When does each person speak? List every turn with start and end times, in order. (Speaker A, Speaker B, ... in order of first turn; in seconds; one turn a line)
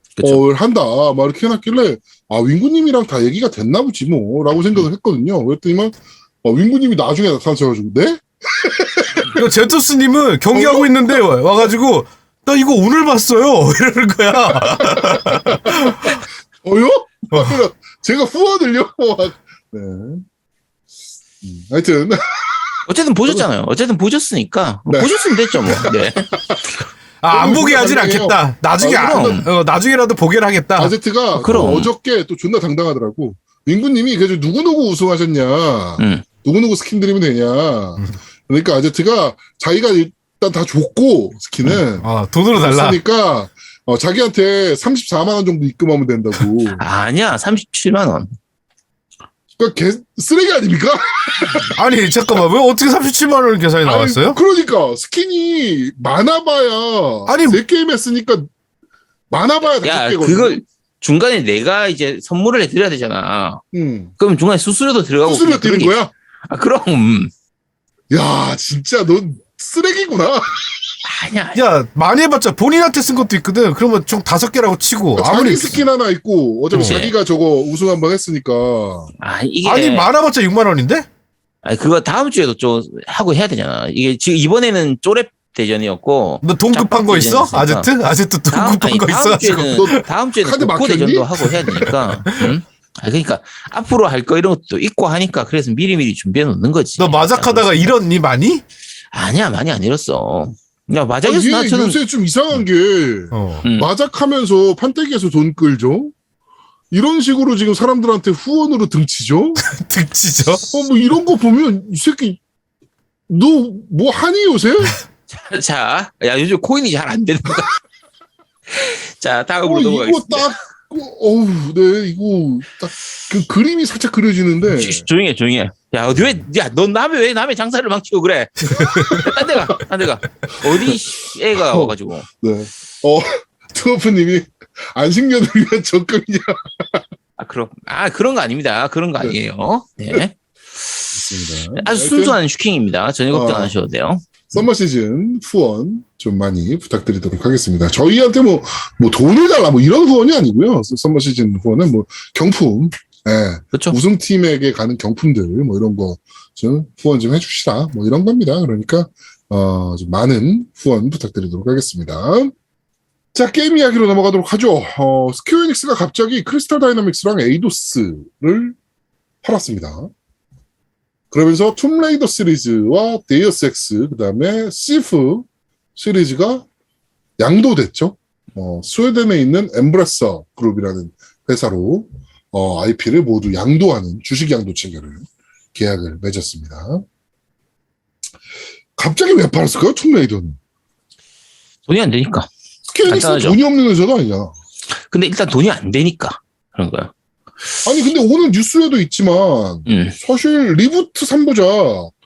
Speaker A: 0.2-0.4
Speaker B: 0.2-9.4
Speaker C: 9.3-16.2
Speaker B: 10.5-11.2
Speaker B: 14.6-20.2
Speaker C: 17.3-17.6
Speaker B: 21.4-22.7
Speaker A: 22.9-26.3
Speaker B: 24.9-26.6
Speaker C: 27.2-31.0
Speaker B: 27.3-29.4
Speaker A: 28.9-29.5
Speaker B: 30.8-46.8
Speaker A: 31.4-31.9
Speaker A: 36.0-36.2
Speaker C: 41.9-43.0
Speaker A: 46.8-48.3
Speaker B: 49.6-51.7
Speaker C: 51.7-54.4
Speaker B: 53.8-58.5
Speaker C: 57.3-57.6
Speaker B: 59.3-60.6
Speaker A: 59.8-63.6
Speaker B: 63.7-64.1
Speaker A: 64.2-66.0
Speaker B: 65.2-66.1
Speaker A: 66.5-67.3
Speaker B: 68.1-70.8
Speaker A: 71.0-71.6
Speaker C: 71.5-75.8
Speaker B: 75.2-79.1
Speaker C: 76.7-77.0
Speaker A: 76.7-77.1
Speaker A: 79.2-80.1
Speaker C: 79.6-81.0
Speaker A: 81.6-87.9
Speaker C: 86.4-90.0
Speaker A: 88.5-97.9
Speaker B: 89.7-91.9
Speaker C: 91.7-92.5
Speaker C: 97.0-98.6
Speaker A: 99.1-102.0
Speaker B: 101.2-106.1
Speaker C: 103.3-103.6
Speaker A: 103.6-103.9
Speaker B: 106.9-109.6
Speaker C: 109.6-110.7
Speaker B: 110.7-112.4
Speaker B: 113.3-115.0
Speaker A: 115.3-117.8
Speaker A: 118.7-120.5
Speaker B: 119.6-125.1
Speaker A: 124.7-132.2
Speaker C: 128.7-129.4
Speaker B: 131.5-137.0
Speaker A: 137.4-141.1
Speaker B: 141.1-142.4
Speaker A: 141.7-144.6
Speaker B: 143.3-143.8
Speaker B: 144.5-162.5
Speaker B: 163.3-168.8
Speaker B: 169.4-170.1
Speaker B: 171.3-176.7
Speaker B: 177.4-187.0
Speaker B: 189.0-190.6
Speaker A: 191.9-192.5
Speaker B: 192.9-194.5
Speaker A: 193.0-193.6
Speaker A: 194.9-197.1
Speaker B: 197.8-202.1
Speaker A: 199.9-200.2